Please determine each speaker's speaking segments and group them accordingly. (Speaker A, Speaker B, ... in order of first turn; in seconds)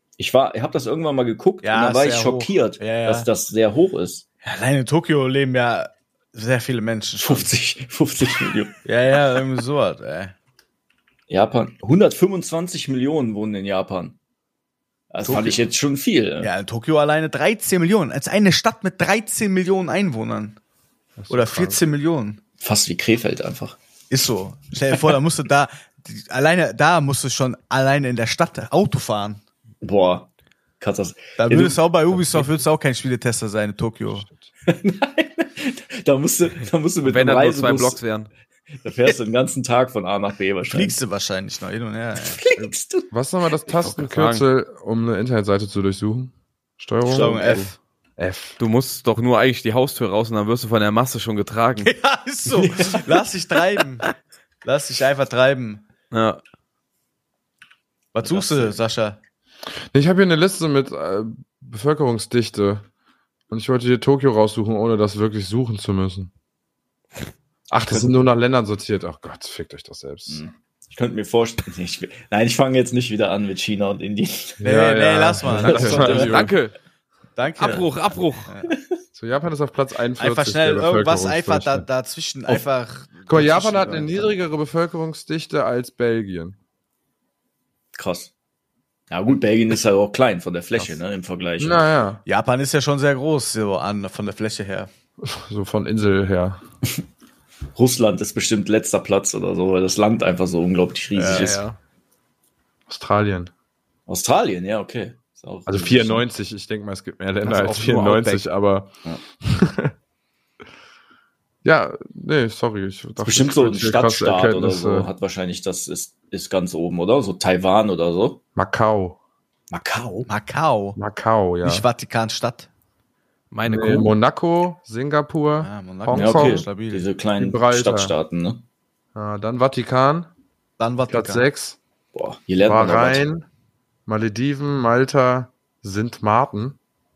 Speaker A: 0.2-4.2, 7.2-8.8, 11.3-14.2, 15.1-16.5, 22.6-23.8, 29.8-30.3, 30.8-31.8, 34.7-38.0, 38.8-41.0, 42.3-43.1, 52.5-53.1, 58.2-58.8, 70.3-74.6, 75.5-76.5, 87.9-88.3, 89.1-91.8, 97.7-101.6, 104.1-106.2, 113.2-118.4, 119.7-120.3, 126.1-128.6, 132.1-133.2
Speaker B: 1.6-3.3, 4.4-7.5, 8.8-10.3, 16.4-20.6, 21.3-22.4, 24.1-29.4, 31.4-34.3, 40.7-42.4, 47.0-47.8, 51.8-54.0, 54.6-55.8, 58.1-59.2, 74.6-76.2, 77.4-77.9, 78.5-78.7, 80.2-84.3, 92.2-94.9, 101.1-101.5, 120.3-121.0, 121.6-122.7, 125.6-127.0, 130.8-131.4
Speaker C: 21.2-21.8, 43.1-47.6, 48.2-48.6, 59.9-62.9, 63.5-66.3, 67.7-70.4, 74.6-76.5, 79.1-81.8, 83.3-86.5, 91.6-92.2, 95.2-96.6, 102.9-103.5, 105.7-109.9, 111.6-115.1, 118.5-119.2, 121.0-121.8, 123.7-126.7, 127.4-128.1, 129.1-130.3, 131.1-131.8, 132.6-133.4, 134.1-136.8
Speaker D: 37.0-38.3, 43.7-44.4, 48.6-51.9, 56.1-56.4, 75.6-76.7, 77.6-78.5, 101.3-101.8, 107.4-108.4, 123.5-124.1